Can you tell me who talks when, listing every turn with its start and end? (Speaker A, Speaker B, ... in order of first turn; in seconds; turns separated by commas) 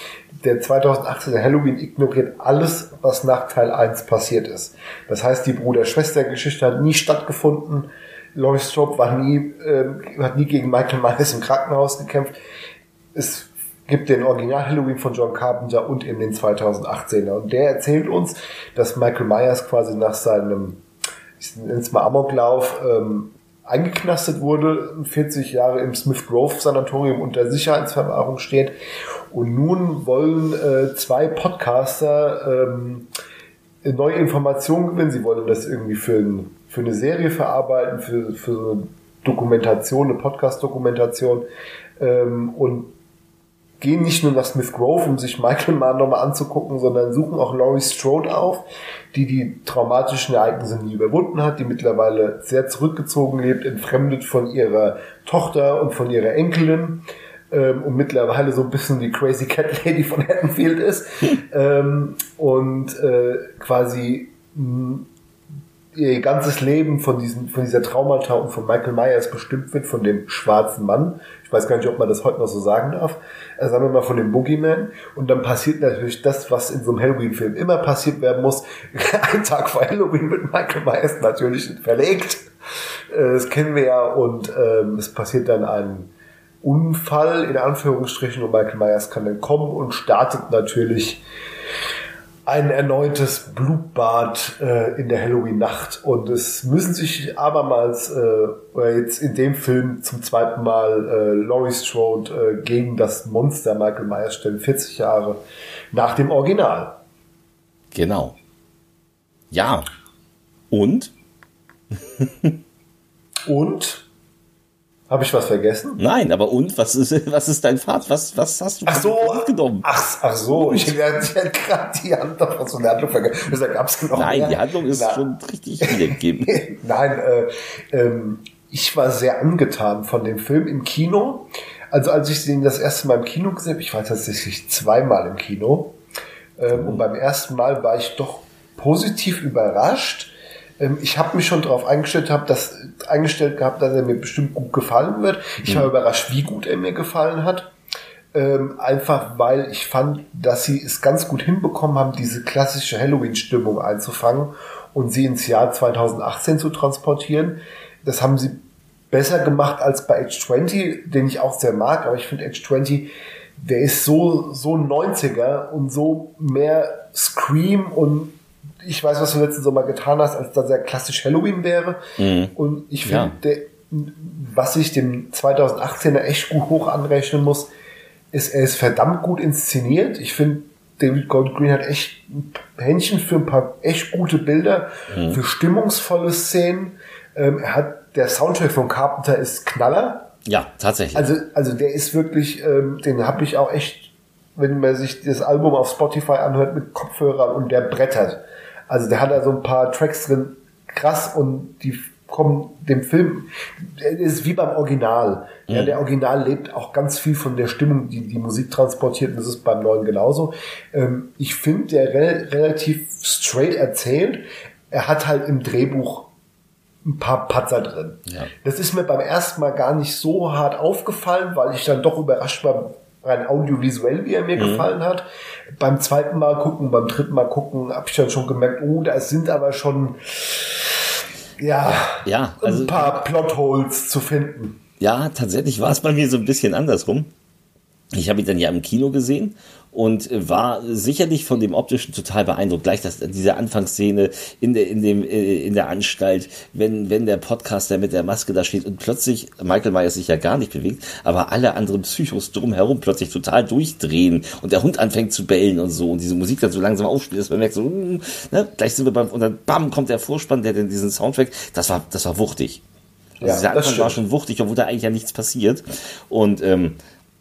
Speaker A: 0.4-12.3, Speaker A: 13.1-20.8, Speaker A: 21.4-28.7, Speaker A: 29.3-33.1, Speaker A: 33.8-41.5, Speaker A: 42.0-42.9, Speaker A: 43.8-65.1, Speaker A: 65.9-82.5, Speaker A: 83.1-86.1, Speaker A: 86.6-91.2, Speaker A: 92.5-105.4, Speaker A: 105.9-107.0, Speaker B: 107.9-108.3, Speaker B: 109.5-109.9, Speaker B: 110.7-111.1, Speaker B: 112.0-112.5, Speaker A: 113.5-114.0, Speaker A: 115.1-116.0, Speaker B: 116.0-119.9, Speaker A: 118.8-125.2, Speaker B: 120.5-120.9, Speaker B: 124.1-126.6, Speaker A: 125.8-136.0, Speaker A: 136.6-147.7, Speaker B: 136.7-137.0, Speaker A: 148.3-172.0, Speaker B: 172.2-172.5, Speaker A: 172.5-177.7, Speaker B: 173.0-173.3, Speaker A: 178.3-190.3, Speaker B: 185.1-185.4, Speaker B: 190.4-191.3, Speaker A: 191.1-216.3, Speaker B: 205.7-206.0, Speaker A: 217.0-225.2, Speaker B: 224.6-224.8, Speaker A: 225.8-230.8, Speaker A: 231.6-234.8, Speaker B: 231.9-233.2, Speaker B: 235.0-237.3, Speaker B: 238.1-262.8, Speaker A: 263.4-264.2, Speaker B: 263.4-267.0